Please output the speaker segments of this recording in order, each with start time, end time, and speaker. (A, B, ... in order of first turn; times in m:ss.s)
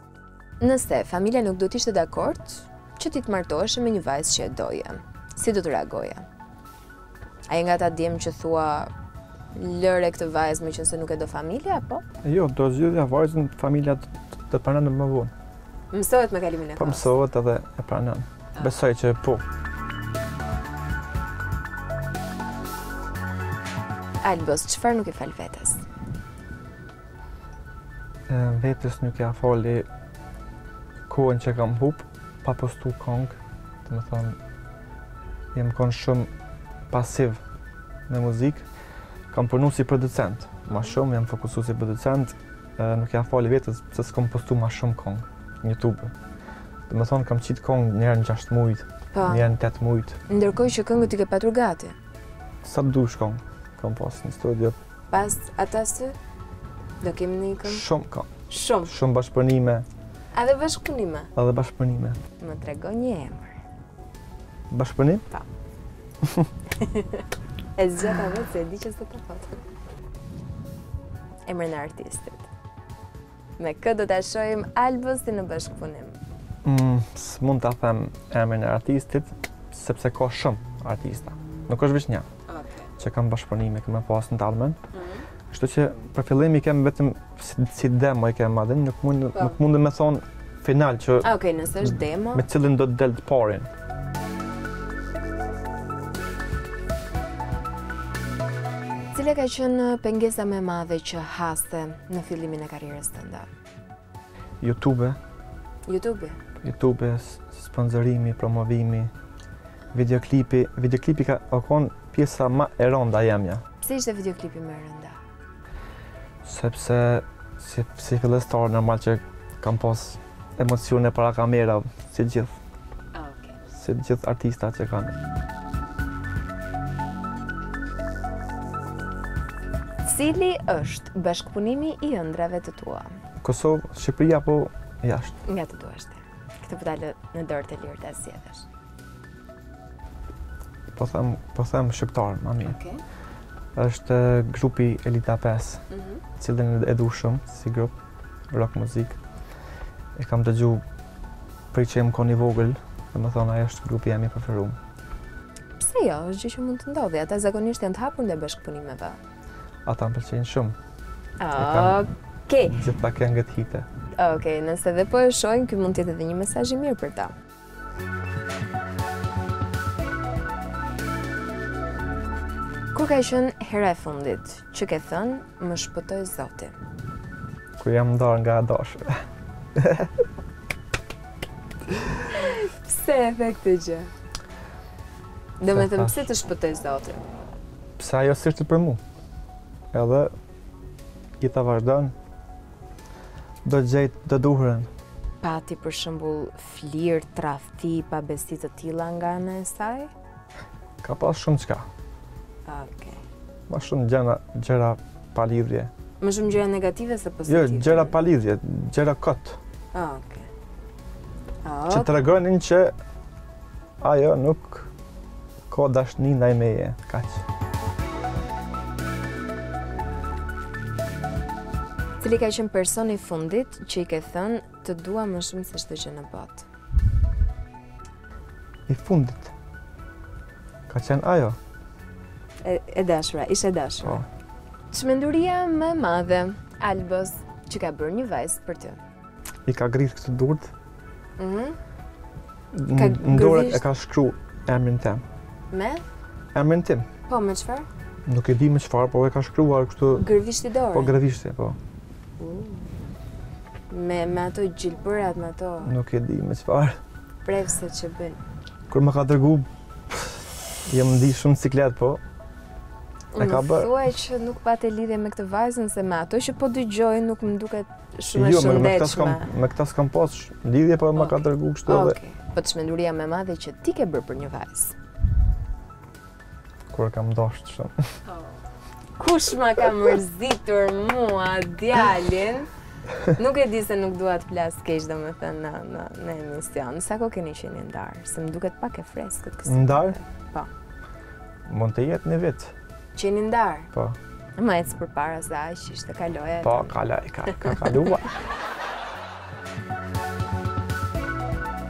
0:00.6-0:06.2 A
0:07.5-0:08.9 A
0:09.5-0:12.0 A
0:12.2-0:15.3 B
0:15.9-0:17.1 A
0:16.8-0:19.4 B
0:24.2-0:25.8 A
0:28.3-0:29.8 B
0:31.1-0:34.4 B
0:35.5-0:36.3 B
0:36.9-0:37.4 B
0:38.1-0:38.6 B
0:39.3-0:46.1 B
0:46.9-0:50.2 B
0:49.1-0:49.5 A
0:50.3-0:52.0 A
0:52.6-0:54.8 B
0:55.1-0:56.1 A
0:57.0-0:57.8 A
0:57.6-0:59.8 B
0:58.5-0:58.9 A
1:00.3-1:01.3 A
1:01.3-1:02.2 B
1:02.4-1:03.6 A
1:04.7-1:05.2 B
1:06.2-1:06.5 B
1:06.7-1:07.2 A
1:07.8-1:09.6 A
1:11.5-1:12.5 A
1:13.6-1:16.2 A
1:16.6-1:22.2 B
1:22.5-1:22.9 A
1:23.0-1:24.8 B
1:24.9-1:25.2 A
1:25.5-1:33.7 B
1:31.2-1:32.4 A
1:39.1-1:43.5 A
1:44.6-1:45.2 B
1:45.9-1:46.4 A
1:46.6-1:49.1 B
1:49.9-1:53.6 B
1:53.8-1:55.2 A
1:56.4-2:02.5 B
2:03.1-2:03.6 A
2:03.7-2:05.1 B
2:10.0-2:13.0 A
2:13.4-2:15.4 B
2:15.4-2:18.6 A
2:20.9-2:22.8 B
2:22.6-2:23.0 A
2:23.7-2:25.8 B
2:25.9-2:26.2 A
2:26.4-2:27.9 B
2:28.5-2:29.2 B
2:30.2-2:30.8 B
2:31.7-2:34.8 B
2:35.8-2:39.2 A
2:39.8-2:40.7 B
2:41.4-2:42.8 A
2:41.6-2:42.0 B
2:42.7-2:43.8 B
2:44.2-2:47.3 A
2:52.9-2:56.7 A
2:57.8-3:00.1 B
3:02.2-3:04.1 A
3:05.6-3:07.2 A
3:05.7-3:06.3 B
3:08.0-3:09.0 B
3:09.9-3:10.3 B
3:11.4-3:12.1 B
3:13.6-3:14.9 B
3:15.4-3:20.1 A
3:21.0-3:21.9 B
3:22.6-3:23.2 A
3:23.7-3:25.9 B
3:26.2-3:28.2 A
3:27.4-3:29.6 B
3:29.9-3:30.5 A
3:31.6-3:32.1 A
3:31.9-3:32.9 B
3:34.0-3:34.9 B
3:35.7-3:37.4 B
3:42.2-3:46.6 A
3:48.9-3:49.5 B
3:50.9-3:51.6 B
3:52.6-3:54.2 A
3:54.9-3:59.0 A
3:59.6-4:00.7 B
4:01.4-4:01.8 A
4:02.7-4:05.2 B
4:02.9-4:03.8 A
4:05.7-4:06.0 A
4:06.5-4:07.1 B
4:07.3-4:07.9 A
4:08.2-4:10.3 B
4:10.1-4:11.2 A
4:10.9-4:11.8 B
4:12.4-4:12.9 A
4:13.9-4:15.9 A
4:15.8-4:17.0 B
4:17.4-4:18.4 A
4:18.9-4:22.2 B
4:23.3-4:29.5 A
4:23.4-4:23.9 B
4:28.3-4:32.2 B
4:31.2-4:35.0 A
4:36.9-4:38.1 B
4:39.2-4:42.7 A
4:43.2-4:50.7 A
4:49.7-4:50.2 B
4:51.7-4:52.7 B
4:53.1-4:53.9 A
4:54.6-4:57.8 A
4:56.6-4:58.3 B